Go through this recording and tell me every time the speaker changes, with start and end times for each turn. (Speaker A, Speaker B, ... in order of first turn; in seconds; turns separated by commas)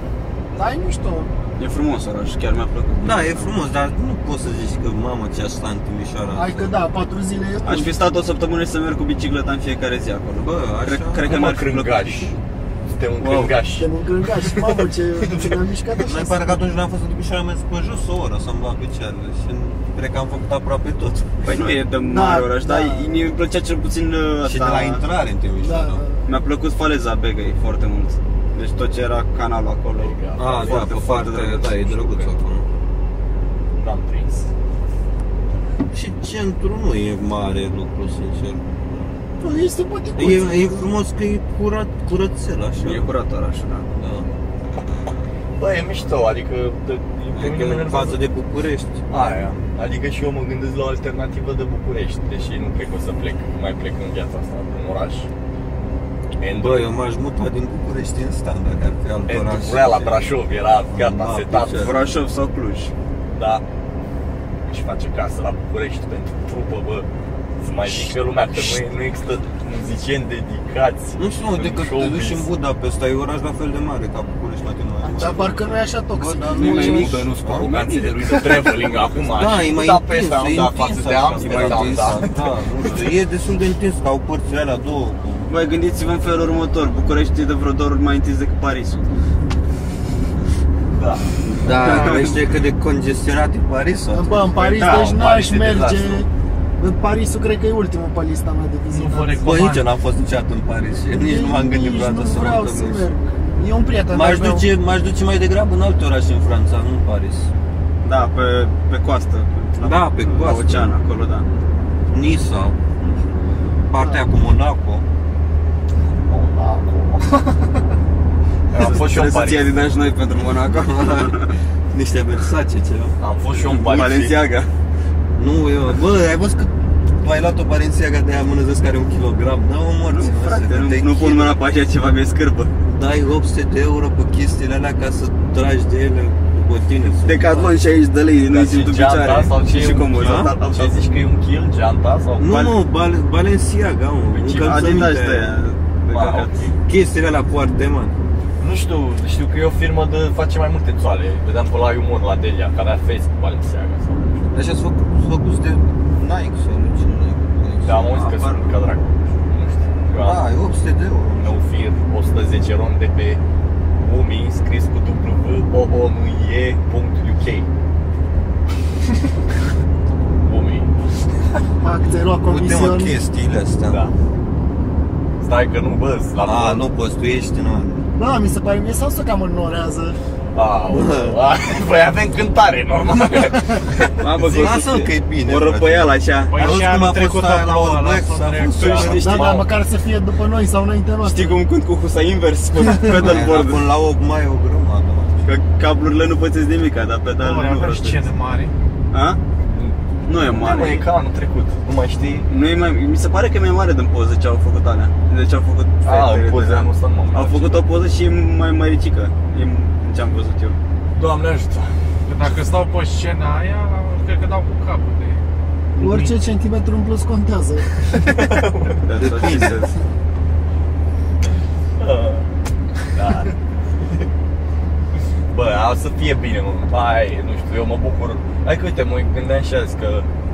Speaker A: 0.5-1.3, Speaker B: 1.6-3.5, Speaker C: 3.0-6.7, Speaker A: 6.3-7.9, Speaker B: 7.6-12.3, Speaker C: 10.4-11.3, Speaker D: 11.2-12.3, Speaker D: 12.8-15.6, Speaker B: 13.2-13.6, Speaker A: 13.7-16.6, Speaker C: 16.0-21.6, Speaker B: 21.4-25.0, Speaker A: 22.0-23.2, Speaker C: 24.4-26.0, Speaker A: 25.6-26.2, Speaker B: 26.2-31.8, Speaker D: 30.0-31.2, Speaker C: 30.4-32.6, Speaker D: 31.8-32.3, Speaker D: 33.8-34.5, Speaker C: 35.9-38.7, Speaker A: 39.4-40.9, Speaker C: 40.1-43.1, Speaker B: 42.8-43.9, Speaker C: 43.9-44.3, Speaker D: 45.6-48.2, Speaker C: 47.3-49.0, Speaker D: 49.1-55.3, Speaker D: 56.4-56.9, Speaker C: 56.5-60.2, Speaker D: 59.3-62.0, Speaker C: 60.9-62.0, Speaker B: 61.7-62.9, Speaker D: 63.3-63.6, Speaker D: 64.6-67.1, Speaker D: 67.6-72.5, Speaker C: 71.2-77.8, Speaker A: 75.0-77.1, Speaker B: 76.5-78.9, Speaker D: 76.6-82.4, Speaker C: 78.3-78.7, Speaker C: 79.3-85.5, Speaker B: 81.4-82.3, Speaker B: 85.5-89.0, Speaker D: 91.0-91.3, Speaker C: 91.5-95.0, Speaker B: 91.6-92.3, Speaker A: 94.1-96.3, Speaker B: 94.7-95.5, Speaker D: 94.8-96.2, Speaker A: 96.8-99.6, Speaker E: 98.9-99.9, Speaker C: 99.4-103.1, Speaker A: 101.1-104.7, Speaker C: 104.1-107.5, Speaker B: 108.0-111.5, Speaker C: 109.8-110.9, Speaker C: 112.1-113.3, Speaker C: 113.9-115.0, Speaker D: 116.2-117.4, Speaker D: 118.7-119.7, Speaker B: 118.7-121.5, Speaker C: 120.8-123.2, Speaker D: 123.2-124.4, Speaker B: 123.5-124.7, Speaker C: 125.3-131.6, Speaker B: 130.1-132.7, Speaker C: 132.8-137.7, Speaker B: 137.2-141.0, Speaker D: 138.5-142.7, Speaker C: 140.2-140.5, Speaker C: 142.4-145.5, Speaker D: 144.3-145.1, Speaker B: 144.6-146.7, Speaker D: 146.1-146.8, Speaker C: 146.8-148.2, Speaker D: 148.6-154.5, Speaker C: 154.5-158.6, Speaker D: 157.8-160.4, Speaker C: 160.1-161.6, Speaker D: 161.4-163.4, Speaker D: 164.0-167.7, Speaker D: 170.4-170.9, Speaker A: 171.8-173.1, Speaker C: 172.4-174.0, Speaker D: 173.9-174.1, Speaker D: 175.4-176.9, Speaker C: 176.4-178.1, Speaker A: 178.2-180.2, Speaker D: 180.5-184.8, Speaker C: 180.9-181.4, Speaker B: 184.2-186.8, Speaker C: 184.4-189.4, Speaker E: 186.5-188.9, Speaker B: 188.7-189.6, Speaker D: 188.8-189.7, Speaker A: 189.2-191.6, Speaker B: 191.2-193.8, Speaker A: 192.8-193.3, Speaker C: 193.0-195.3, Speaker B: 195.4-198.2, Speaker E: 197.4-198.7, Speaker B: 199.1-199.4, Speaker D: 199.7-202.5, Speaker B: 200.2-201.1, Speaker B: 202.5-210.8, Speaker D: 206.0-207.8, Speaker D: 211.1-211.9, Speaker E: 212.2-215.4, Speaker A: 215.9-217.9, Speaker E: 216.0-216.3, Speaker D: 218.1-219.0, Speaker B: 219.0-220.0, Speaker C: 219.2-219.8, Speaker D: 222.0-222.5, Speaker D: 223.1-224.2, Speaker D: 225.5-230.3